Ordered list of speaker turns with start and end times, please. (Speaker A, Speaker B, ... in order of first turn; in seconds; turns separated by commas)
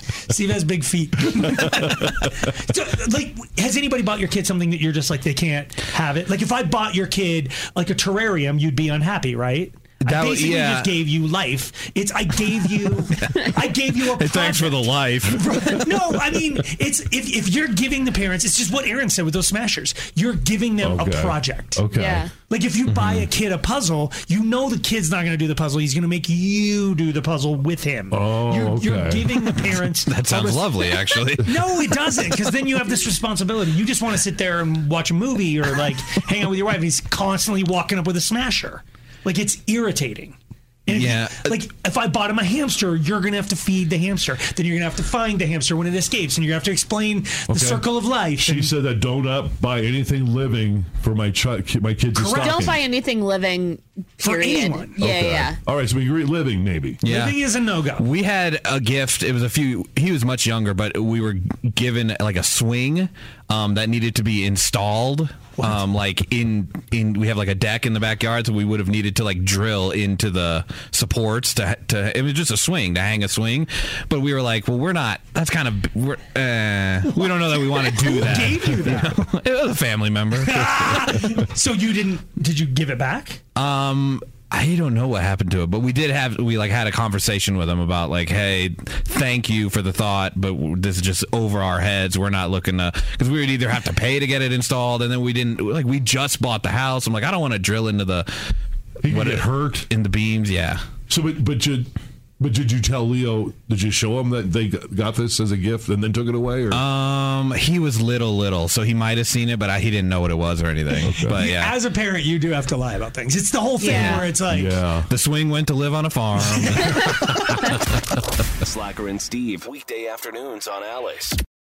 Speaker A: 0.3-14.8, Speaker B: 10.0-11.0, Speaker B: 12.6-16.4, Speaker A: 15.4-21.8, Speaker C: 20.8-22.3, Speaker D: 21.9-22.3, Speaker A: 22.4-31.0, Speaker B: 22.9-23.3, Speaker C: 28.1-29.3, Speaker B: 29.4-32.3, Speaker A: 31.5-48.7, Speaker B: 40.9-41.5, Speaker C: 47.5-47.9, Speaker C: 48.4-52.8, Speaker A: 52.2-52.6, Speaker D: 52.3-55.6, Speaker A: 54.2-55.0, Speaker C: 55.0-57.0, Speaker B: 57.0-81.1, Speaker A: 57.1-58.0, Speaker A: 77.9-79.1, Speaker A: 80.4-83.4, Speaker B: 83.6-98.3, Speaker C: 99.0-99.9, Speaker B: 99.0-100.8, Speaker C: 101.1-106.8, Speaker B: 106.7-111.7, Speaker C: 111.0-111.4, Speaker A: 111.4-114.8, Speaker D: 113.8-114.2, Speaker C: 114.5-115.1, Speaker B: 115.1-117.8, Speaker E: 118.6-121.4